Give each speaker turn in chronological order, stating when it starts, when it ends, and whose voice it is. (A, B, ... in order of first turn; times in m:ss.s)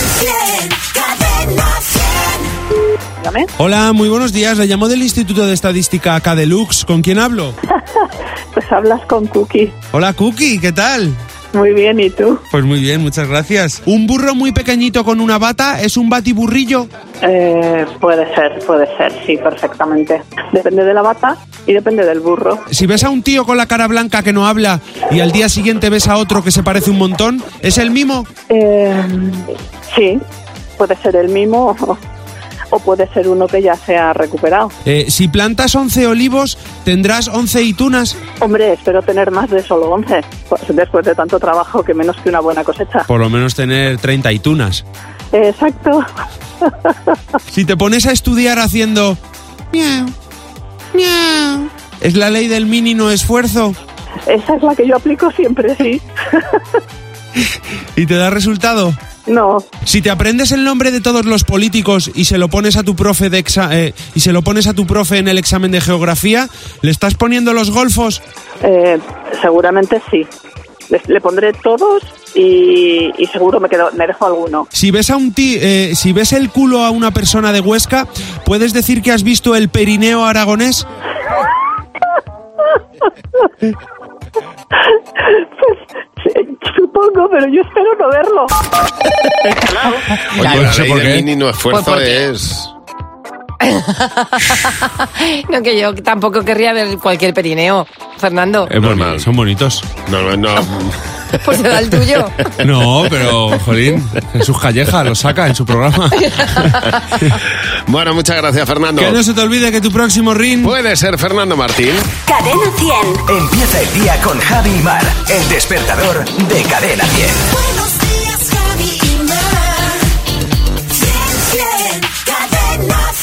0:00.2-0:02.0 A
0:03.2-0:03.5 B
0:03.6-0:07.6 C
0:08.0-0:09.8 B
0:09.9-0:11.2 C
0:11.5-0:12.4 B
0:12.5-0:16.9 C
0:17.2-0:22.7 B
0:22.7-0:28.3 C
0:28.5-0:30.2 B
0:30.8-0:32.0 B
0:32.7-0:34.7 B
0:34.8-0:38.2 C
0:38.4-0:43.1 B
0:43.1-0:44.8 C
0:45.3-0:46.0 B
0:46.6-0:47.1 B
0:47.5-0:49.2 C
0:49.7-0:50.2 C
0:50.9-0:53.8 C
0:54.3-0:56.6 B
0:57.4-0:59.0 C
0:59.3-0:59.7 B
0:59.8-1:08.2 C
1:08.6-1:10.3 B
1:10.9-1:14.7 B
1:14.7-1:20.8 C
1:25.2-1:28.5 B
1:29.6-1:30.0 B
1:30.3-1:32.7 D
1:30.4-1:31.3 C
1:31.7-1:32.3 E
1:33.6-1:38.7 E
1:38.7-1:39.9 C
1:38.8-1:39.2 D
1:40.0-1:42.7 D
1:41.3-1:42.5 E
1:42.6-1:47.4 C
1:47.5-1:49.2 D
1:49.0-1:50.8 C
1:50.6-1:52.1 D
1:52.2-1:53.2 A
1:53.2-1:57.5 F
1:58.8-1:59.3 E